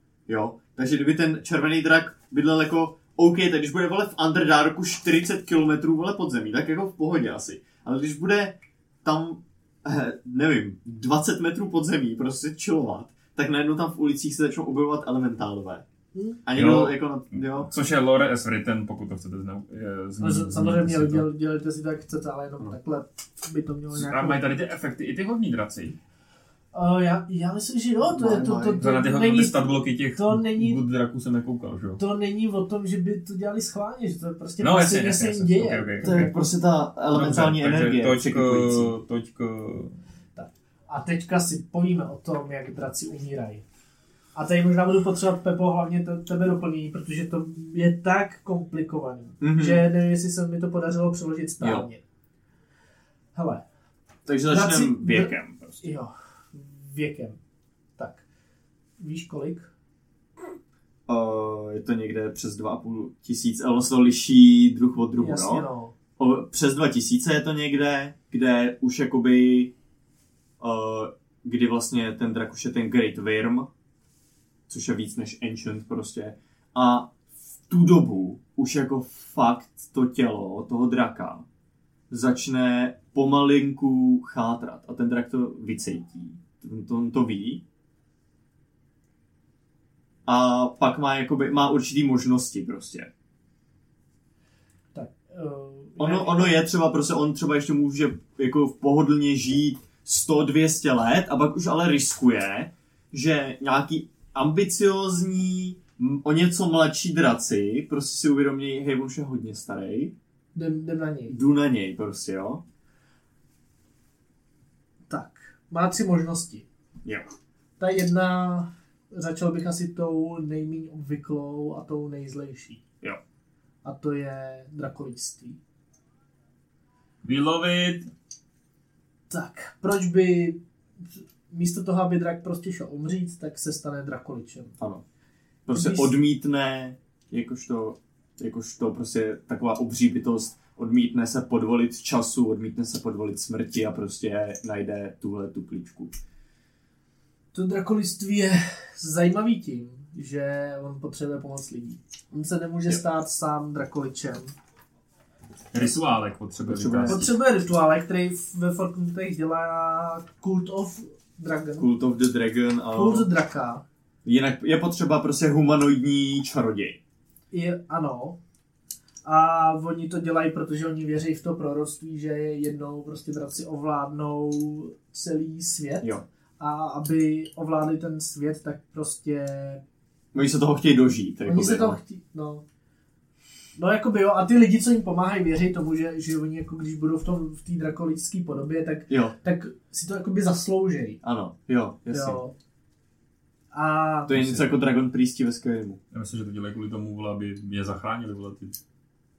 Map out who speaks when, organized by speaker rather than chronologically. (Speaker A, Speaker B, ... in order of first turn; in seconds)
Speaker A: 0.3-15.8, 16.4-17.7, 28.1-28.8, 36.0-38.9, 49.4-49.8, 51.6-51.9, 54.3-55.9, 61.1-65.7, 66.2-69.7, 70.6-73.7, 74.7-77.1, 77.7-81.5, 82.1-87.6, 90.3-93.1, 96.0-110.1, 111.3-112.6, 135.7-146.2, 156.7-157.2, 161.8-163.3, 164.2-167.0, 180.3-182.0, 189.1-189.3, 191.2-192.4, 194.3-196.0
Speaker B: 16.5-21.3, 23.9-26.0, 28.8-32.0, 34.6-36.3, 37.1-40.0, 127.2-128.1, 155.7-157.3, 196.1-198.8
Speaker C: 20.2-24.4, 26.7-30.8, 32.0-36.3, 40.4-43.6, 44.4-52.0, 53.4-53.6, 54.5-57.4, 58.0-58.2, 59.0-59.7, 65.2-65.9, 95.0-96.6, 110.5-111.3, 115.1-116.7, 117.8-122.8, 123.8-125.6, 129.3-130.6, 131.5-134.8, 135.7-136.1, 147.5-154.6, 157.1-161.9, 162.9-163.8, 167.5-168.4, 169.2-179.8, 181.5-182.6, 183.8-191.2, 192.1-192.5, 193.7-194.6